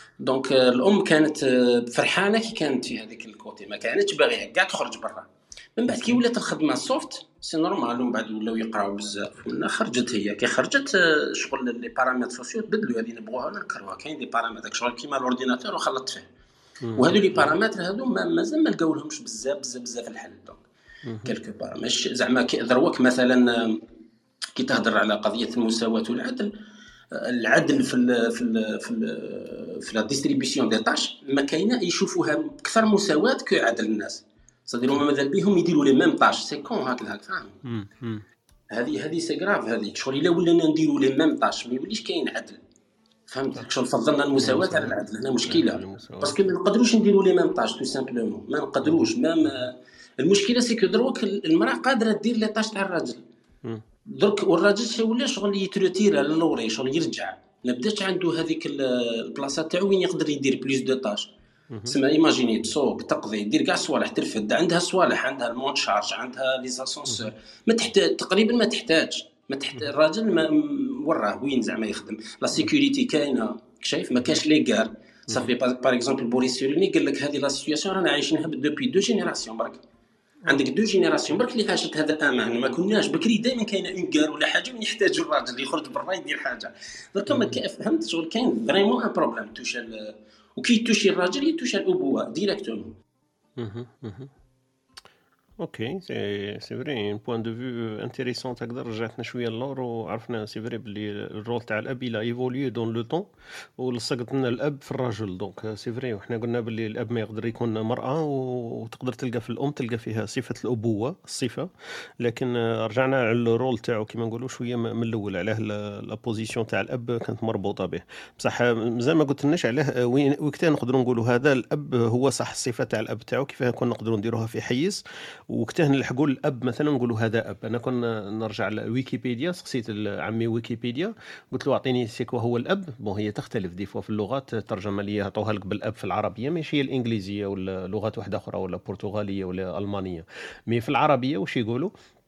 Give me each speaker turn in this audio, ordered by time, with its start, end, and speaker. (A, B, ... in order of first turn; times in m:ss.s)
0:00.2-0:16.3 A
0:05.9-0:06.2 B
0:16.8-0:17.5 B
0:17.0-0:20.6 A
0:21.1-0:21.3 B
0:21.2-0:23.8 A
0:24.6-0:26.5 A
0:27.1-0:37.6 A
0:37.6-0:38.2 B
0:38.7-0:42.6 A
0:43.3-0:53.2 A
0:44.4-0:46.5 B
0:48.8-0:49.6 B
0:54.1-1:01.3 A
1:01.9-1:19.8 A
1:20.5-1:33.0 A
1:27.3-1:27.6 B
1:33.6-1:34.3 B
1:35.6-1:51.7 B
1:52.2-2:21.9 B